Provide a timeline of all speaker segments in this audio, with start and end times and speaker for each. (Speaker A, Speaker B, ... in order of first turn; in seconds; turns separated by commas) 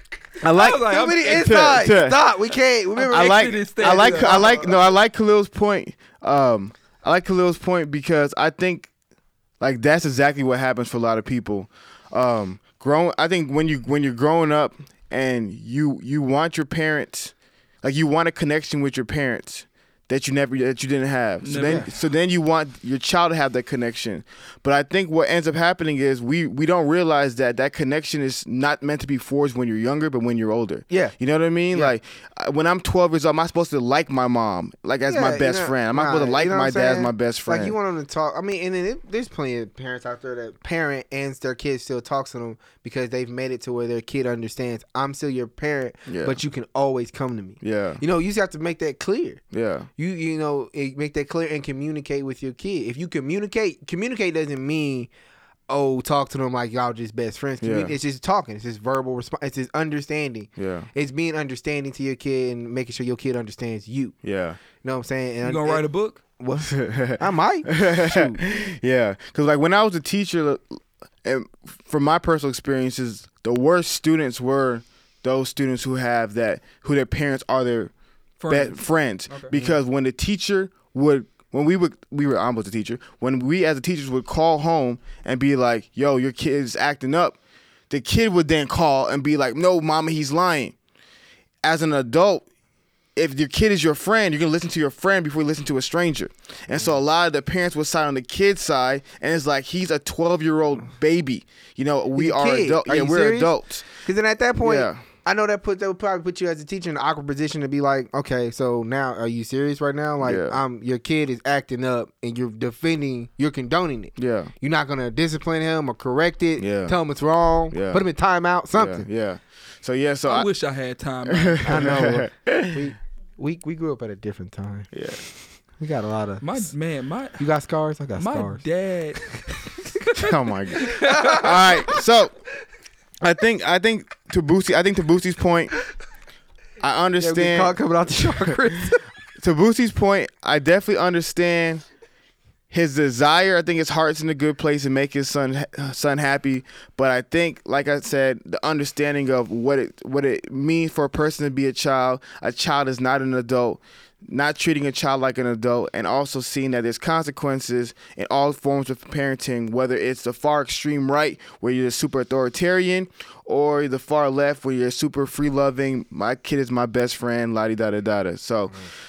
Speaker A: 0.4-2.3, Speaker B: 0.5-1.5, Speaker C: 0.5-4.9, Speaker B: 3.0-4.5, Speaker A: 3.0-8.9, Speaker A: 9.6-37.8, Speaker B: 21.4-21.9, Speaker C: 21.6-21.9, Speaker C: 35.1-49.4, Speaker A: 46.1-46.4, Speaker A: 47.6-48.0, Speaker A: 49.5-49.9, Speaker C: 50.0-55.1, Speaker C: 55.7-64.1, Speaker A: 57.6-57.9, Speaker A: 60.6-60.9, Speaker A: 64.2-64.6, Speaker C: 64.8-65.8, Speaker B: 65.4-66.2, Speaker C: 66.4-68.4, Speaker A: 66.7-77.9, Speaker B: 78.4-79.6, Speaker A: 78.5-87.4, Speaker A: 87.9-90.8, Speaker A: 91.6-92.4, Speaker A: 93.2-103.9, Speaker C: 102.2-119.1, Speaker A: 104.6-105.0, Speaker A: 110.2-110.6, Speaker A: 114.2-114.5, Speaker A: 116.6-117.0, Speaker A: 117.7-118.0, Speaker A: 118.8-120.5, Speaker B: 120.3-121.9, Speaker A: 121.2-122.8, Speaker C: 121.6-124.9, Speaker A: 124.9-125.2, Speaker C: 125.8-126.7, Speaker B: 126.4-127.4, Speaker C: 127.4-128.6, Speaker B: 128.2-131.7, Speaker A: 130.1-132.3, Speaker C: 130.8-131.6, Speaker A: 133.2-135.8, Speaker A: 136.8-138.5, Speaker C: 137.2-139.1, Speaker A: 139.4-141.8, Speaker A: 142.7-168.9